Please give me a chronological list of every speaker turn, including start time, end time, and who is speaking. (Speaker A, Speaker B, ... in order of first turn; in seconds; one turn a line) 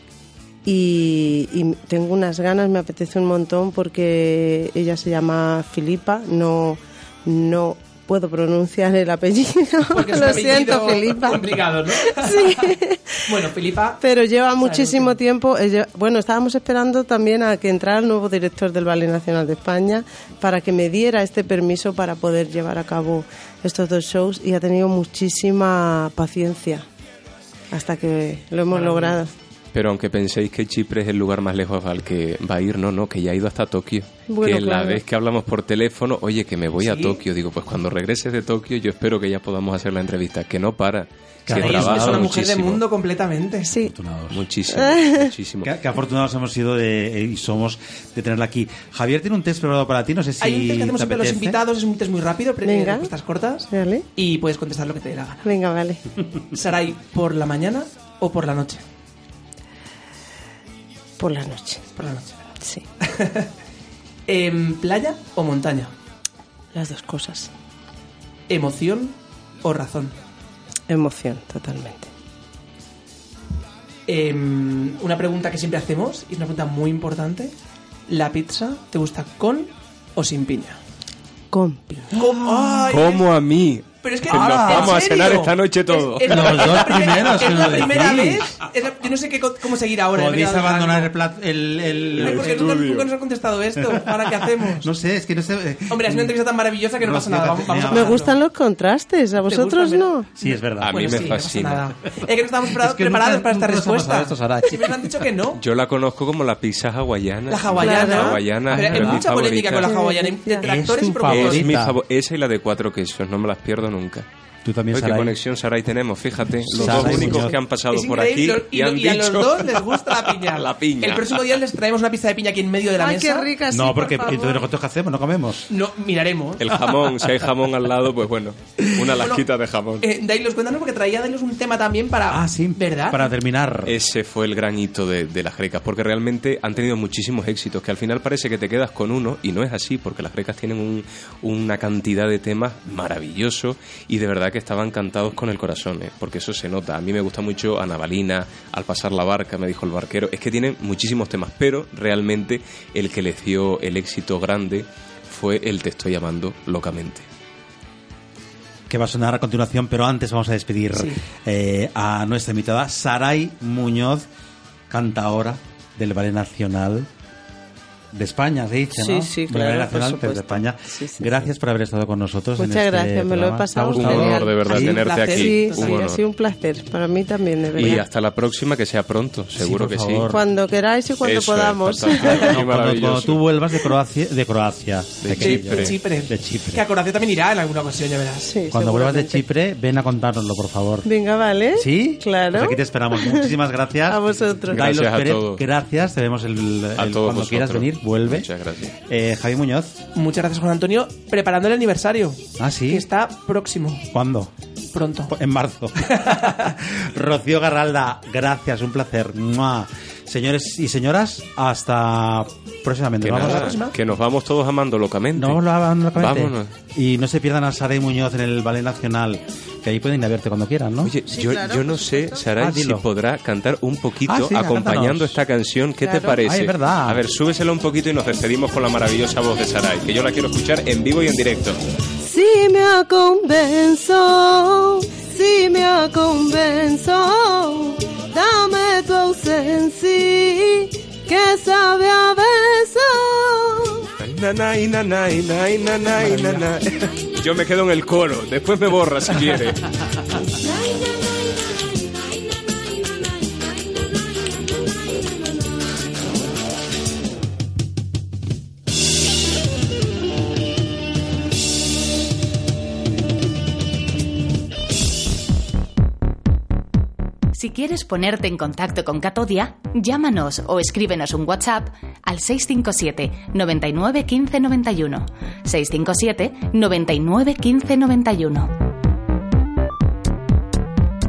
Speaker A: 0.7-13.3
Speaker B: 9.9-12.8
Speaker B: 13.3-14.0
Speaker A: 14.0-26.9
Speaker B: 14.6-15.2
Speaker A: 27.7-29.3
Speaker B: 28.7-29.2
Speaker C: 29.7-42.8
Speaker A: 34.3-35.0
Speaker B: 36.8-37.2
Speaker D: 41.5-42.4
Speaker B: 41.5-43.7
Speaker D: 43.7-44.4
Speaker C: 44.3-45.7
Speaker A: 44.7-45.3
Speaker D: 45.6-51.6
Speaker B: 50.4-55.5
Speaker A: 52.6-53.1
Speaker A: 53.7-54.1
Speaker A: 55.4-56.0
Speaker B: 56.5-58.8
Speaker A: 61.2-61.9
Speaker B: 62.0-62.4
Speaker B: 63.0-63.5
Speaker B: 64.3-65.9
Speaker A: 66.7-67.5
Speaker B: 68.5-70.2
Speaker A: 70.9-72.1
Speaker B: 74.1-77.5
Speaker B: 78.1-80.8
Speaker A: 81.5-82.1
Speaker B: 82.1-83.3
Speaker D: 82.2-82.9
Speaker C: 82.9-88.1
Speaker B: 84.0-91.1
Speaker D: 84.3-85.1
Speaker D: 86.2-88.6
Speaker D: 90.1-92.8
Speaker C: 92.1-93.1
Speaker B: 92.1-94.9
Speaker D: 93.8-96.4
Speaker B: 95.9-98.4
Speaker D: 97.0-98.3
Speaker A: 97.9-100.3
Speaker B: 99.5-105.6
Speaker D: 100.4-101.4
Speaker C: 100.8-101.9
Speaker D: 102.7-105.3
Speaker C: 105.6-110.0
Speaker B: 107.5-111.7
Speaker A: 107.8-108.4
Speaker D: 108.8-109.2
Speaker A: 109.8-110.7
Speaker D: 110.6-112.0
Speaker C: 111.2-114.3
Speaker D: 114.7-115.4
Speaker C: 114.9-121.6
Speaker D: 116.8-117.6
Speaker A: 116.9-117.5
Speaker B: 117.9-123.5
Speaker A: 123.0-124.7
Speaker D: 123.7-125.7
Speaker B: 125.7-126.7
Speaker C: 126.6-130.1
Speaker D: 128.8-129.1
Speaker B: 129.2-129.4
Speaker B: 130.0-133.3
Speaker D: 132.3-134.0
Speaker C: 133.9-157.3
Speaker D: 158.9-164.3
Speaker B: 160.9-161.2
Speaker D: 164.9-167.1
Speaker D: 168.1-175.1
Speaker A: 168.9-171.4
Speaker A: 172.6-178.0
Speaker C: 173.9-176.2
Speaker B: 174.7-176.0
Speaker C: 177.8-180.3
Speaker D: 179.6-180.4
Speaker A: 180.3-182.5
Speaker C: 181.2-183.4
Speaker D: 182.3-186.8
Speaker C: 185.2-186.0
Speaker B: 185.4-188.5
Speaker A: 188.4-189.4
Speaker D: 188.7-191.1
Speaker A: 191.1-193.5
Speaker D: 191.8-198.5
Speaker A: 194.1-194.8
Speaker C: 194.7-195.6
Speaker C: 197.0-198.9
Speaker D: 199.0-200.0
Speaker B: 200.2-204.1
Speaker D: 202.6-203.1
Speaker D: 204.1-204.5
Speaker B: 204.9-205.4
Speaker D: 205.3-213.8
Speaker B: 206.1-206.7
Speaker C: 213.2-215.6
Speaker B: 213.4-213.9
Speaker D: 215.3-221.1
Speaker C: 216.2-216.8
Speaker C: 221.0-231.8
Speaker A: 221.3-222.5
Speaker D: 222.6-223.1
Speaker D: 224.3-225.4
Speaker A: 226.1-226.3
Speaker D: 226.1-227.2
Speaker A: 232.2-244.1
Speaker C: 244.2-249.9
Speaker E: 267.5-278.7